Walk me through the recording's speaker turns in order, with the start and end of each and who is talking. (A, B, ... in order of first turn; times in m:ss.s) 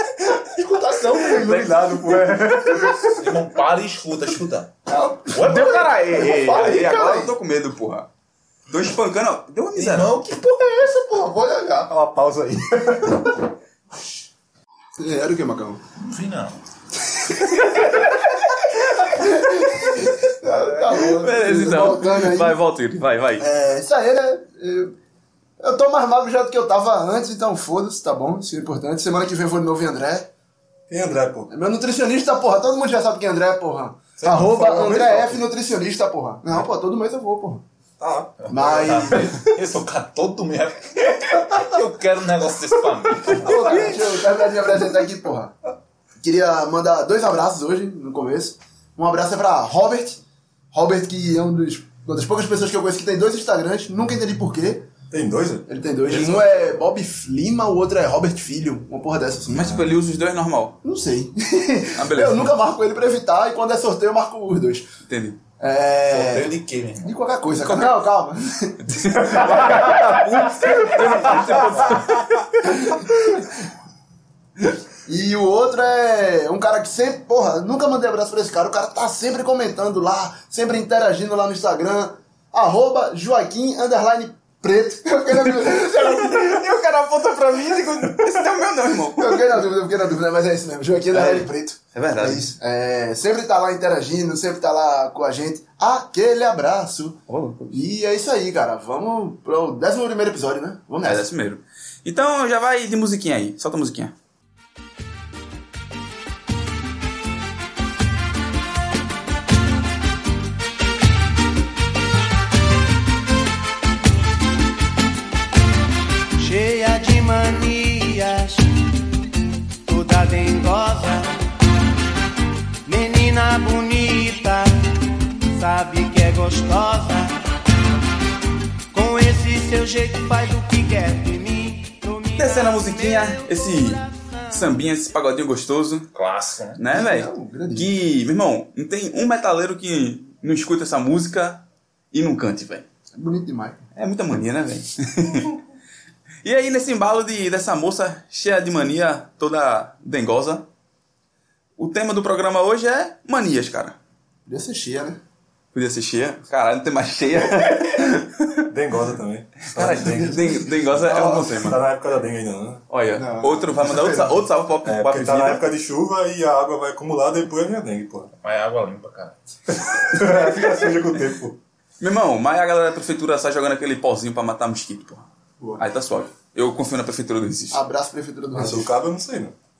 0:00.3-0:01.6 A
0:01.1-0:03.4 B
0:03.2-0:04.7 C
0:04.9-0:07.3 A
0:05.3-0:06.0 C
0:05.4-0:08.1 D
0:08.7-0:10.1 D
0:09.8-0:11.9 C
0:11.9-0:13.4 B
0:15.0-0:15.8 A
0:16.0-0:16.6 C
0:17.6-0:18.2 D
0:19.1-0:22.6 A
0:20.4-0:21.7 C
0:21.2-0:23.4 D
0:23.4-0:24.9 A
0:25.6-0:30.3 A
0:30.9-0:31.5 B
0:31.5-0:37.6 A
0:34.2-0:35.4 B
0:34.2-0:34.6 C
0:38.0-0:38.7 B
0:38.4-0:43.5 C
0:38.5-0:39.4 A
0:43.3-0:45.5 A
0:43.4-0:44.1 D
0:46.2-0:50.2 A
0:50.7-0:54.9 A
0:55.1-0:55.6 B
0:55.7-0:59.9 A
0:56.1-0:56.8 D
0:59.5-1:00.8 D
1:00.8-1:04.9 A
1:02.0-1:02.6 D
1:05.0-1:05.4 D
1:05.6-1:06.5 A
1:06.1-1:07.1 C
1:07.0-1:11.7 A
1:08.8-1:12.8 D
1:12.6-1:13.6 A
1:15.0-1:26.6 A
1:25.6-1:29.6 D
1:28.0-1:28.4 B
1:29.2-1:41.3 A
1:31.1-1:32.4 D
1:37.3-1:37.8 D
1:41.0-1:44.1 D
1:56.4-1:58.7 E
1:59.9-2:01.3 E
2:02.8-2:04.7 E
2:05.5-2:07.3 E
2:08.9-2:14.7 E
2:12.4-2:16.1 D
2:16.1-2:16.8 C
2:16.8-2:22.8 D
2:16.9-2:17.9 A
2:23.2-2:23.8 A
2:24.0-2:25.6 D
2:26.4-2:30.6 D
2:31.8-2:34.0 D
2:34.5-2:35.2 A
2:35.7-2:38.7 D
2:38.7-2:42.8 B
2:39.7-2:41.8 D
2:40.1-2:41.7 A
2:42.9-2:45.6 D
2:43.1-2:44.4 A
2:44.8-2:48.3 B
2:48.4-2:49.4 C
2:50.1-2:51.6 B
2:50.2-2:50.8 D
2:52.0-2:55.2 D
2:55.8-2:57.8 D
2:57.7-2:58.9 A
2:58.5-2:59.5 B